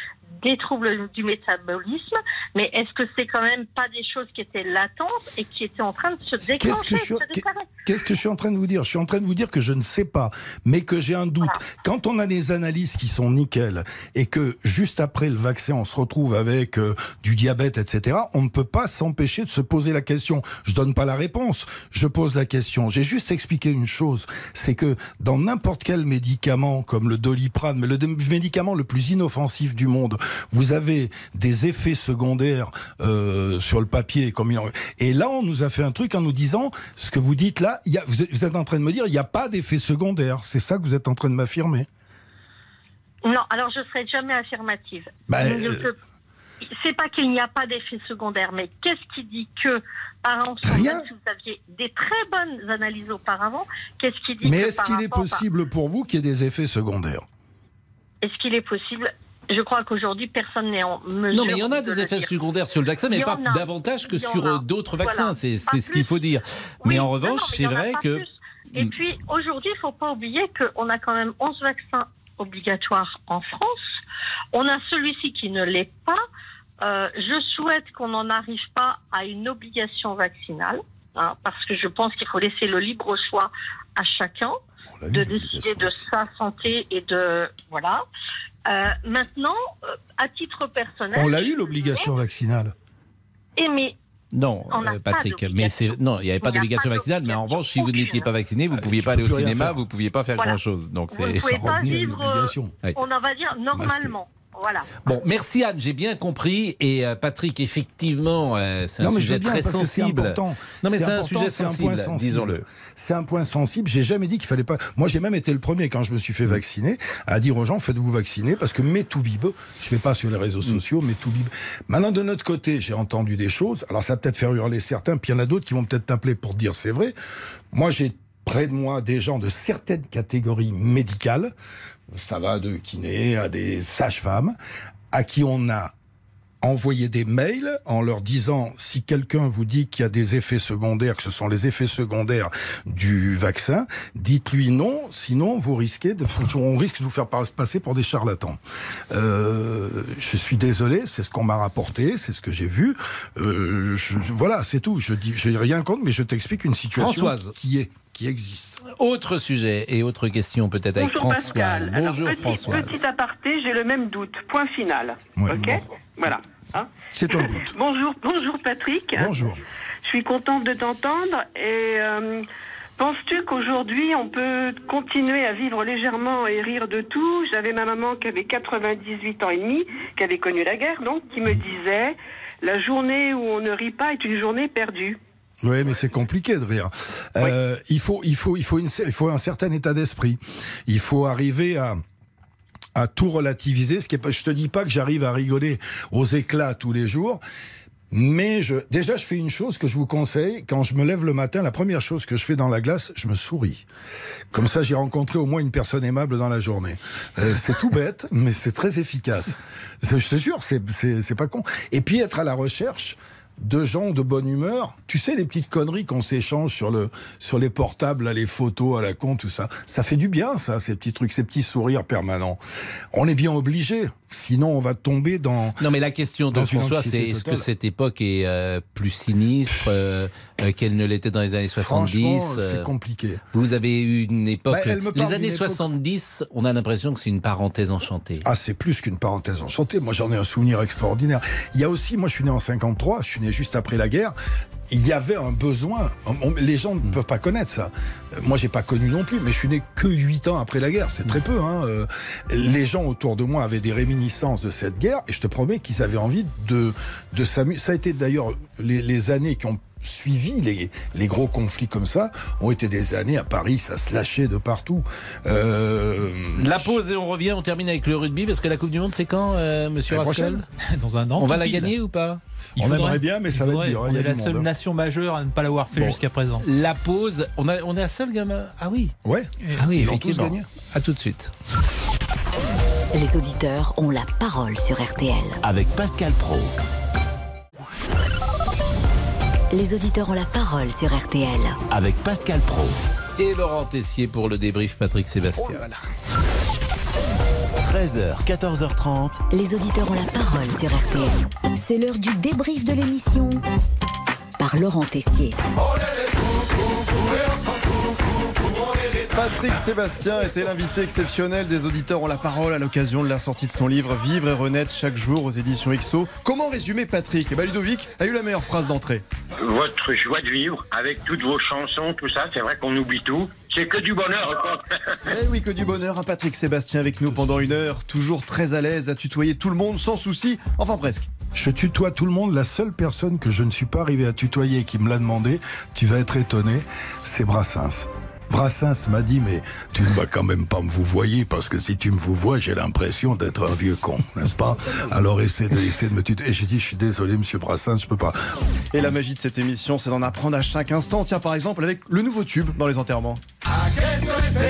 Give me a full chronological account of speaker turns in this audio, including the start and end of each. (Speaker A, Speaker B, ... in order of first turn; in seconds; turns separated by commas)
Speaker A: 0.4-7.7, Speaker B: 6.4-41.9, Speaker A: 43.2-46.0, Speaker B: 45.3-45.9, Speaker A: 46.6-55.4, Speaker B: 50.6-51.0, Speaker B: 54.4-57.2, Speaker A: 58.2-62.3, Speaker C: 61.3-68.2, Speaker A: 63.1-66.1, Speaker A: 66.8-73.9, Speaker A: 74.5-76.2, Speaker A: 76.8-84.6, Speaker B: 85.0-86.0, Speaker A: 85.1-88.0, Speaker A: 88.7-92.1, Speaker B: 91.1-92.7, Speaker A: 93.6-94.0, Speaker C: 94.3-102.1, Speaker A: 94.7-98.3, Speaker B: 98.7-99.8, Speaker A: 101.1-105.0, Speaker B: 101.4-102.8, Speaker B: 103.7-104.2, Speaker C: 105.1-112.6, Speaker B: 109.0-127.1, Speaker B: 127.7-131.5, Speaker B: 132.1-134.5, Speaker B: 135.1-135.9, Speaker B: 136.6-148.6, Speaker B: 149.1-158.8, Speaker C: 156.9-157.6, Speaker C: 158.8-163.0, Speaker D: 160.9-169.3, Speaker B: 165.3-165.8, Speaker B: 167.1-167.7, Speaker B: 169.1-169.6, Speaker D: 170.0-172.4, Speaker D: 173.0-185.2, Speaker B: 185.6-192.0, Speaker B: 192.9-197.4, Speaker B: 198.1-203.8, Speaker B: 204.5-222.6, Speaker B: 223.1-225.8, Speaker C: 225.8-232.9, Speaker B: 226.5-227.7, Speaker B: 231.7-233.4, Speaker C: 233.5-238.4, Speaker B: 234.7-235.8, Speaker B: 238.4-244.3, Speaker B: 244.9-267.0, Speaker C: 266.6-270.6, Speaker B: 270.1-270.6, Speaker E: 270.8-271.9, Speaker C: 271.4-272.4, Speaker B: 272.8-274.7, Speaker E: 272.8-276.6, Speaker C: 276.0-279.1, Speaker B: 279.2-280.6, Speaker E: 279.6-279.9, Speaker C: 279.8-281.5, Speaker F: 283.1-285.6, Speaker G: 285.6-286.7, Speaker F: 289.7-291.8, Speaker G: 291.9-293.0, Speaker C: 293.4-295.8, Speaker G: 297.8-299.4, Speaker F: 299.5-303.6, Speaker F: 304.6-305.6, Speaker H: 309.3-319.2, Speaker I: 319.6-325.1, Speaker H: 325.3-331.3, Speaker B: 331.5-348.4, Speaker H: 348.9-353.4